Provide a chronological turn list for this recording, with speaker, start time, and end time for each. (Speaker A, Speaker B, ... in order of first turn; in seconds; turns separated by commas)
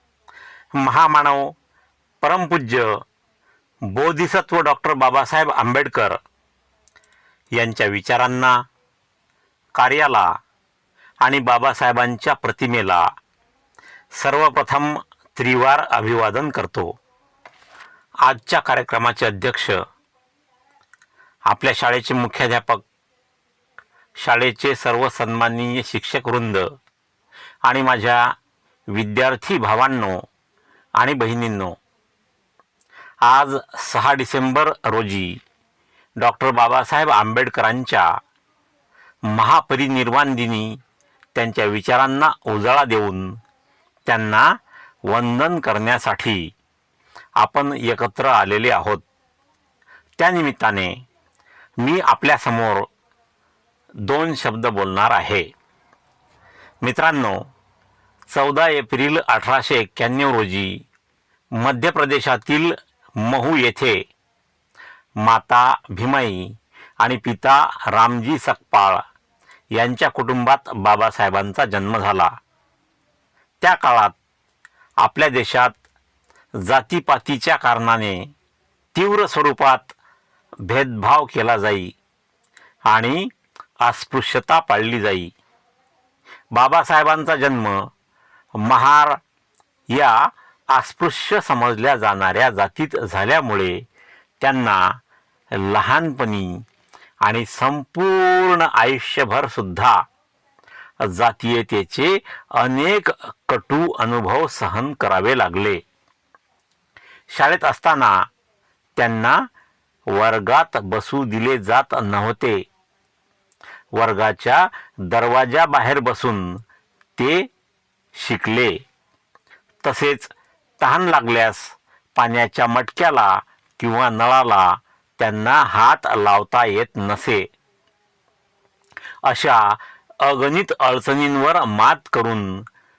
Speaker A: 0.8-1.5, Speaker A: 2.2-3.0, Speaker A: 3.9-6.2, Speaker A: 7.6-8.6, Speaker A: 9.8-10.3, Speaker A: 11.2-13.1, Speaker A: 14.2-17.0, Speaker A: 18.2-19.8, Speaker A: 21.5-22.8, Speaker A: 24.2-26.7, Speaker A: 27.6-28.3, Speaker A: 28.9-30.2, Speaker A: 31.0-31.8, Speaker A: 33.2-35.4, Speaker A: 36.2-38.2, Speaker A: 39.3-40.8, Speaker A: 41.3-43.4, Speaker A: 44.0-44.6, Speaker A: 45.1-46.5, Speaker A: 47.4-49.0, Speaker A: 50.2-51.0, Speaker A: 51.8-52.9, Speaker A: 54.0-55.5, Speaker A: 56.8-57.5, Speaker A: 58.3-60.8, Speaker A: 61.5-64.0, Speaker A: 65.2-69.0, Speaker A: 69.7-72.3, Speaker A: 73.6-74.2, Speaker A: 75.0-75.7, Speaker A: 76.6-78.3, Speaker A: 78.9-79.9, Speaker A: 80.7-81.9, Speaker A: 82.9-83.3, Speaker A: 83.8-85.3, Speaker A: 86.5-87.9, Speaker A: 88.6-89.2, Speaker A: 89.9-93.8, Speaker A: 94.4-95.0, Speaker A: 95.5-96.6, Speaker A: 97.2-100.0, Speaker A: 101.0-105.8, Speaker A: 107.3-108.2, Speaker A: 109.0-109.4, Speaker A: 110.1-112.6, Speaker A: 114.0-116.6, Speaker A: 117.2-117.5, Speaker A: 118.1-118.8, Speaker A: 119.8-127.5, Speaker A: 129.2-132.7